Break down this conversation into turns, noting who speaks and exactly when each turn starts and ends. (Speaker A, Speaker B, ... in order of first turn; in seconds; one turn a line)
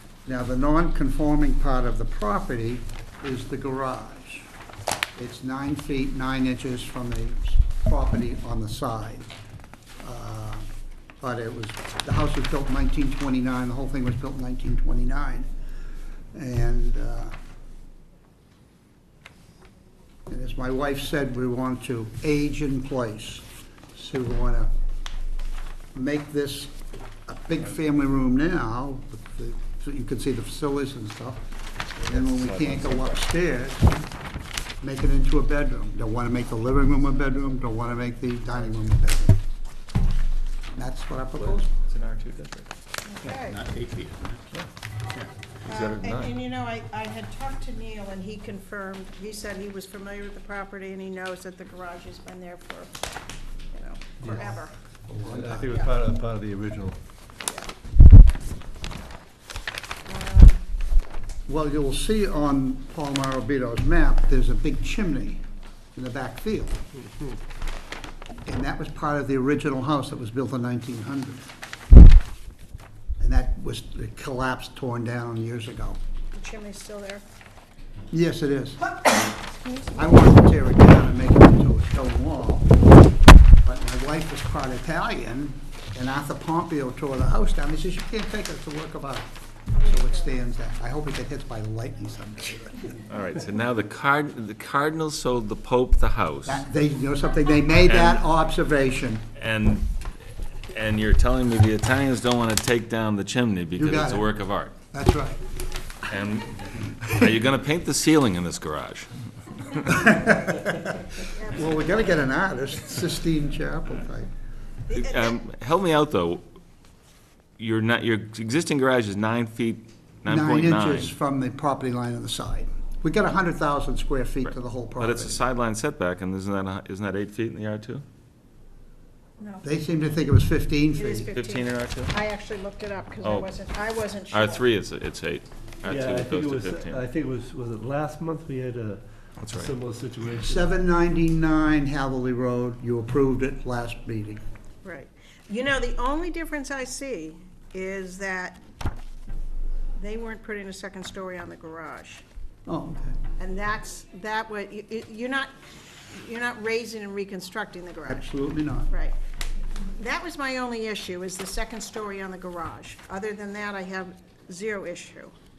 Speaker A: 0.2-4.5
Speaker A: 5.2-9.3
Speaker A: 10.0-10.6
Speaker A: 11.2-15.5
Speaker A: 16.3-17.3
Speaker A: 20.3-24.7
Speaker A: 25.9-26.7
Speaker A: 27.3-31.4
Speaker A: 32.0-34.1
Speaker B: 32.0-33.0
Speaker A: 34.8-39.4
Speaker A: 40.7-41.7
Speaker B: 41.3-42.7
Speaker C: 43.0-43.7
Speaker D: 43.2-44.4
Speaker B: 45.6-46.4
Speaker C: 45.7-52.9
Speaker C: 53.7-54.8
Speaker D: 54.2-54.5
Speaker A: 55.1-55.8
Speaker D: 55.2-57.0
Speaker C: 55.7-55.9
Speaker C: 57.4-57.7
Speaker C: 60.0-60.6
Speaker A: 61.5-65.4
Speaker A: 65.9-66.8
Speaker A: 68.5-71.4
Speaker A: 73.2-76.0
Speaker C: 76.3-77.2
Speaker A: 78.1-78.9
Speaker A: 79.9-82.7
Speaker A: 83.6-89.3
Speaker C: 89.7-90.3
Speaker A: 89.8-92.9
Speaker B: 93.1-96.6
Speaker A: 96.5-99.2
Speaker B: 97.8-98.2
Speaker B: 99.3-99.9
Speaker B: 100.7-104.7
Speaker A: 103.8-104.3
Speaker A: 104.9-105.4
Speaker B: 106.1-110.1
Speaker A: 110.0-110.9
Speaker C: 111.3-112.0
Speaker A: 111.5-114.3
Speaker C: 114.9-115.4
Speaker B: 114.9-116.4
Speaker B: 117.6-121.1
Speaker A: 120.3-125.4
Speaker B: 124.5-128.0
Speaker C: 129.4-129.7
Speaker A: 129.6-131.3
Speaker C: 130.9-134.6
Speaker B: 131.3-132.2
Speaker B: 133.2-133.5
Speaker B: 134.3-137.0
Speaker D: 135.8-140.7
Speaker B: 139.4-139.7
Speaker A: 140.4-144.4
Speaker C: 144.8-148.6
Speaker C: 150.0-152.2
Speaker A: 152.7-153.2
Speaker C: 153.4-155.5
Speaker C: 156.1-158.2
Speaker A: 158.1-158.9
Speaker C: 158.9-159.2
Speaker C: 159.9-165.3